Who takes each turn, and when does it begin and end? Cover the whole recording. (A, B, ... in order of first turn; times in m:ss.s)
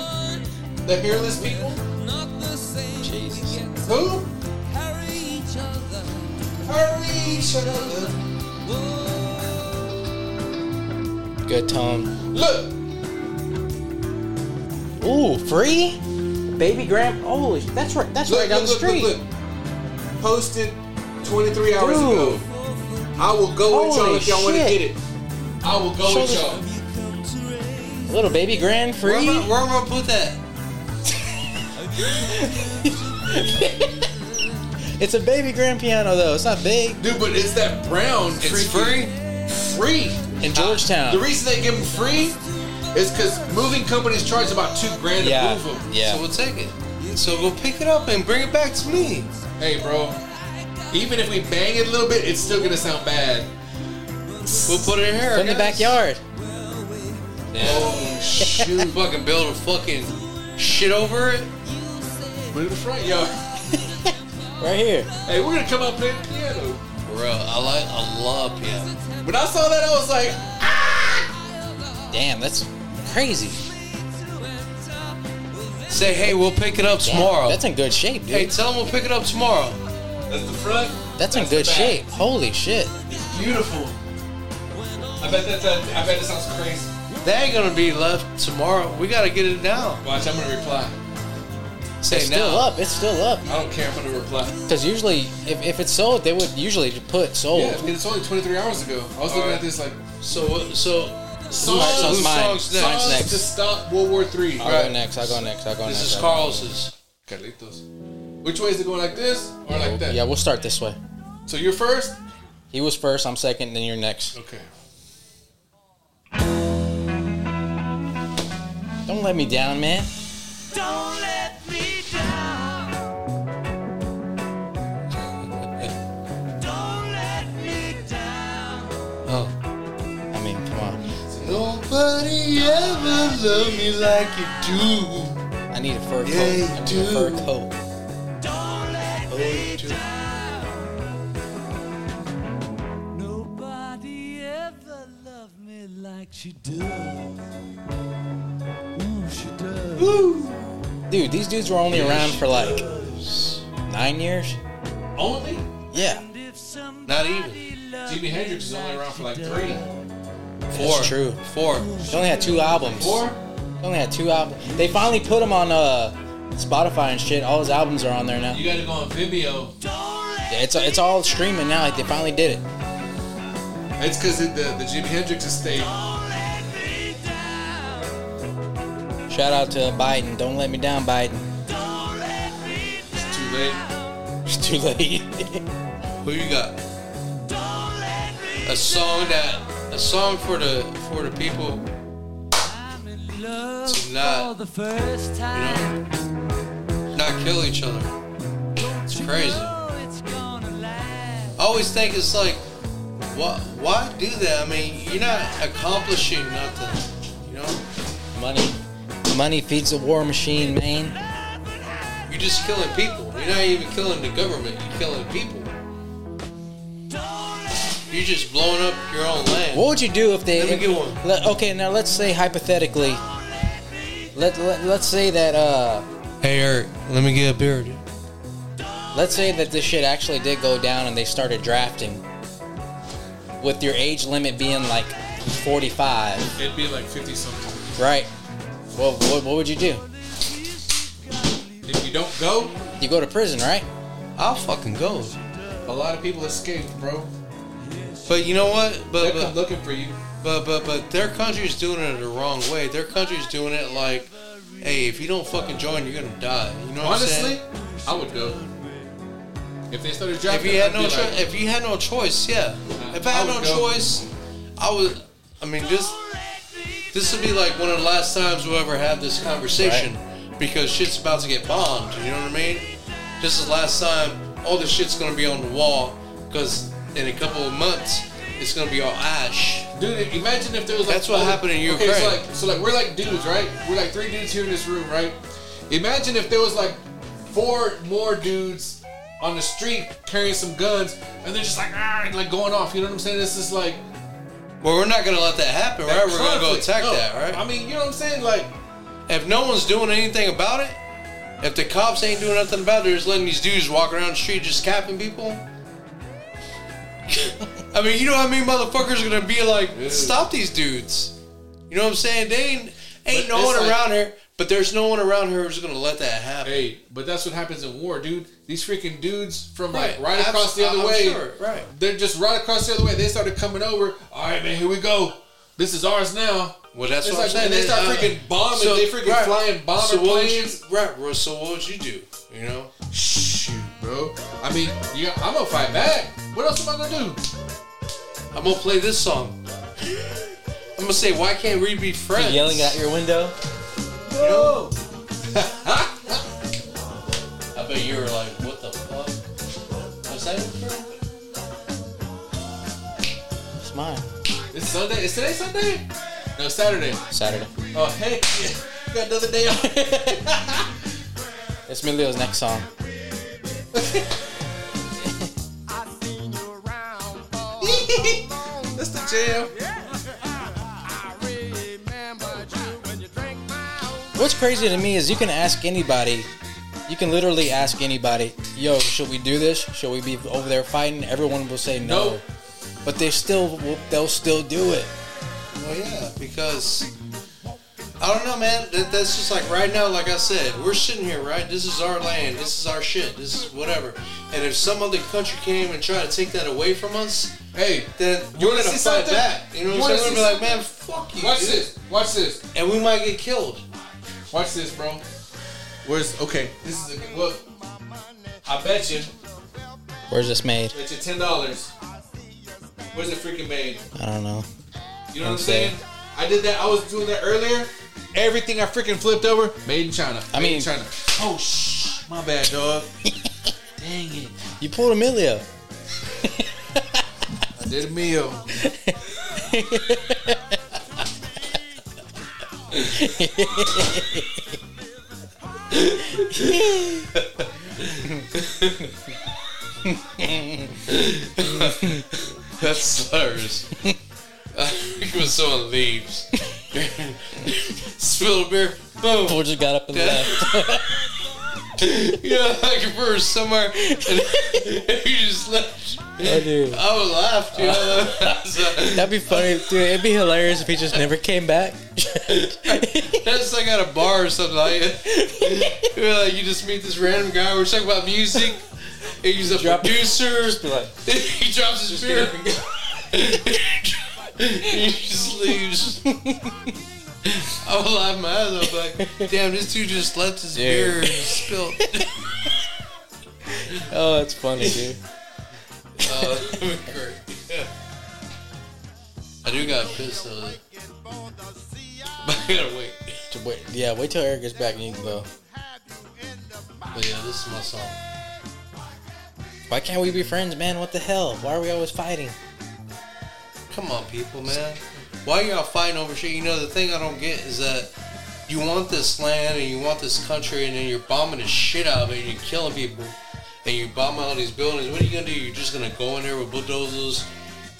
0:00.8-0:01.8 A
0:03.0-0:03.6 B
0:03.8-0:04.3 A
0:06.6-0:08.2 A
0:11.4-0:12.1 B
0:12.3-0:12.7 A
0:15.0-0:16.0 B
0:16.5-0:19.2 B
0:18.2-0:19.2 A
0:20.2-0:22.5 A
0:21.7-0:22.4 B
0:23.2-0:25.0 A
0:23.7-0:24.9 B
0:25.6-0:26.6 A
0:26.0-0:26.6 B
0:28.1-0:29.5 B
0:29.0-0:30.4 C
0:32.0-0:34.1 B
0:34.9-0:37.0 B
0:37.0-0:42.4 A
0:38.4-0:39.1 C
0:40.4-0:41.2 B
0:42.9-0:45.9 A
0:45.2-0:46.2 B
0:46.0-0:49.3 C
0:49.6-0:50.2 A
0:50.9-0:53.5 A
0:54.6-0:56.0 C
0:55.2-0:56.2 B
0:57.5-0:58.9 B
0:57.6-0:59.0 A
0:57.6-0:58.0 C
0:58.9-1:01.5 C
1:02.5-1:03.4 A
1:03.7-1:05.1 B
1:05.2-1:06.8 A
1:07.0-1:09.0 C
1:09.2-1:11.2 A
1:12.1-1:13.7 B
1:15.9-1:17.6 C
1:17.0-1:18.6 B
1:18.3-1:19.8 C
1:20.3-1:22.0 A
1:21.2-1:22.9 B
1:23.1-1:24.0 A
1:25.2-1:26.9 A
1:27.2-1:30.0 C
1:30.0-1:30.9 A
1:32.0-1:32.7 C
1:32.1-1:33.5 B
1:33.4-1:34.5 A
1:34.7-1:37.9 B
1:37.5-1:40.0 A
1:39.2-1:39.6 C
1:40.2-1:43.2 C
1:41.5-1:44.7 A
1:41.6-1:43.5 B
1:44.6-1:46.7 B
1:44.6-1:45.0 C
1:45.8-1:46.9 C
1:47.3-1:47.8 A
1:48.4-1:50.2 A
1:49.7-1:51.0 B
1:51.5-1:52.2 A
1:52.7-1:54.4 B
1:54.3-1:54.7 A
1:59.0-2:00.1 B
2:07.0-2:08.7 D
2:09.2-2:09.5 C
2:10.3-2:11.0 B
2:11.2-2:11.6 A
2:11.4-2:15.4 C
2:15.7-2:17.8 B
2:16.2-2:17.5 C
2:18.7-2:19.2 D
2:19.3-2:20.0 C
2:23.3-2:26.6 D
2:29.9-2:30.7 A
2:31.1-2:32.8 B
2:31.9-2:33.6 C
2:33.8-2:34.6 B
2:35.2-2:35.6 A
2:35.9-2:36.2 B
2:37.0-2:37.7 C
2:38.1-2:39.8 A
2:40.7-2:41.4 B
2:40.7-2:42.0 C
2:42.0-2:43.3 B
2:42.7-2:43.4 A
2:43.8-2:48.6 B
2:48.5-2:49.7 A
2:50.5-2:52.6 B
2:54.0-2:56.0 A
2:59.3-3:01.5 B
3:03.1-3:03.8 A
3:04.4-3:05.6 B
3:06.2-3:06.8 C
3:08.6-3:11.8 C
3:13.8-3:14.5 C
3:15.5-3:15.9 C
3:17.1-3:18.1 C
3:18.9-3:19.8 C
3:21.6-3:22.6 C
3:23.3-3:27.8 C
3:28.3-3:31.2 B
3:32.3-3:35.7 C
3:38.1-3:39.9 C
3:39.7-3:43.2 B
3:40.5-3:41.2 C
3:44.3-3:46.1 B
3:46.4-3:48.0 C
3:49.1-3:52.2 B
3:53.6-3:56.5 B
3:56.6-3:57.7 A
3:58.0-3:58.3 B
3:58.9-4:00.0 B
4:01.8-4:02.8 A
4:03.0-4:03.9 B
4:04.4-4:05.4 C
4:05.8-4:07.3 A
4:08.2-4:09.6 C
4:09.2-4:10.2 A
4:10.4-4:17.6 C
4:17.0-4:18.6 A
4:19.9-4:21.4 A
4:20.5-4:24.2 C
4:23.0-4:23.9 A
4:24.8-4:26.2 C
4:27.1-4:32.9 C
4:29.8-4:30.1 B
4:33.4-4:39.9 C
4:39.9-4:45.4 A
4:41.1-4:42.4 C
4:45.9-4:54.0 A
4:54.8-4:57.6 C
4:56.0-4:58.7 A
4:59.3-5:01.0 C
5:01.6-5:05.6 C
5:07.9-5:11.3 C
5:09.9-5:10.4 A
5:11.9-5:16.8 C
5:13.3-5:14.0 A
5:16.6-5:30.8 A
5:19.9-5:21.9 C
5:26.9-5:32.9 C
5:33.1-5:37.4 A
5:38.5-5:39.6 C
5:41.0-5:43.0 C
5:42.3-5:43.5 B
5:44.3-5:44.9 A
5:44.4-5:44.9 C
5:45.5-5:46.4 A
5:47.7-5:49.4 C
5:50.2-5:51.1 C
5:53.8-5:54.2 B
5:54.7-5:57.2 A
5:57.3-5:57.7 B
5:57.9-6:00.9 A
5:59.6-6:00.4 B
6:01.9-6:02.9 B
6:03.9-6:04.2 A
6:07.8-6:09.7 A
6:14.3-6:16.5 B
6:17.1-6:22.4 B
6:22.0-6:22.4 A
6:23.0-6:25.1 B
6:25.7-6:27.1 C
6:28.2-6:37.6 C
6:37.7-6:40.7 A
6:38.2-6:41.9 C
6:41.4-6:42.6 A
6:42.7-6:43.8 C
6:44.5-6:45.2 A
6:46.0-6:47.6 A
6:48.6-6:49.3 A
6:50.3-6:50.9 B
6:50.9-6:51.9 A
6:53.1-6:54.0 A
6:54.1-6:54.7 B
6:55.3-7:03.1 A
6:55.4-6:56.0 B
7:00.5-7:00.9 B
7:03.2-7:03.5 B
7:04.0-7:04.6 A
7:04.8-7:05.6 B
7:06.4-7:07.2 B
7:07.7-7:08.6 A
7:08.7-7:10.8 B
7:13.0-7:14.6 B
7:15.9-7:19.1 C
7:16.6-7:17.2 B
7:20.0-7:21.0 B
7:21.0-7:23.9 C
7:21.6-7:22.2 B
7:24.7-7:30.7 C
7:29.4-7:31.2 B
7:32.0-7:39.6 C
7:34.1-7:34.8 B
7:36.4-7:37.0 B
7:37.7-7:43.5 B
7:42.5-7:56.3 C
7:45.2-7:46.1 B
7:49.6-7:51.1 B
7:52.1-7:52.9 B
7:56.2-7:56.9 B
7:57.4-8:02.3 C
7:59.2-7:59.5 B
8:00.7-8:02.2 B
8:03.8-8:05.2 B
8:04.8-8:05.1 C
8:06.2-8:07.9 C
8:06.3-8:06.7 B
8:09.6-8:10.8 C
8:12.4-8:13.4 C
8:13.5-8:15.5 B
8:17.1-8:18.2 C
8:19.9-8:22.6 B
8:23.9-8:28.1 C
8:28.7-8:37.5 C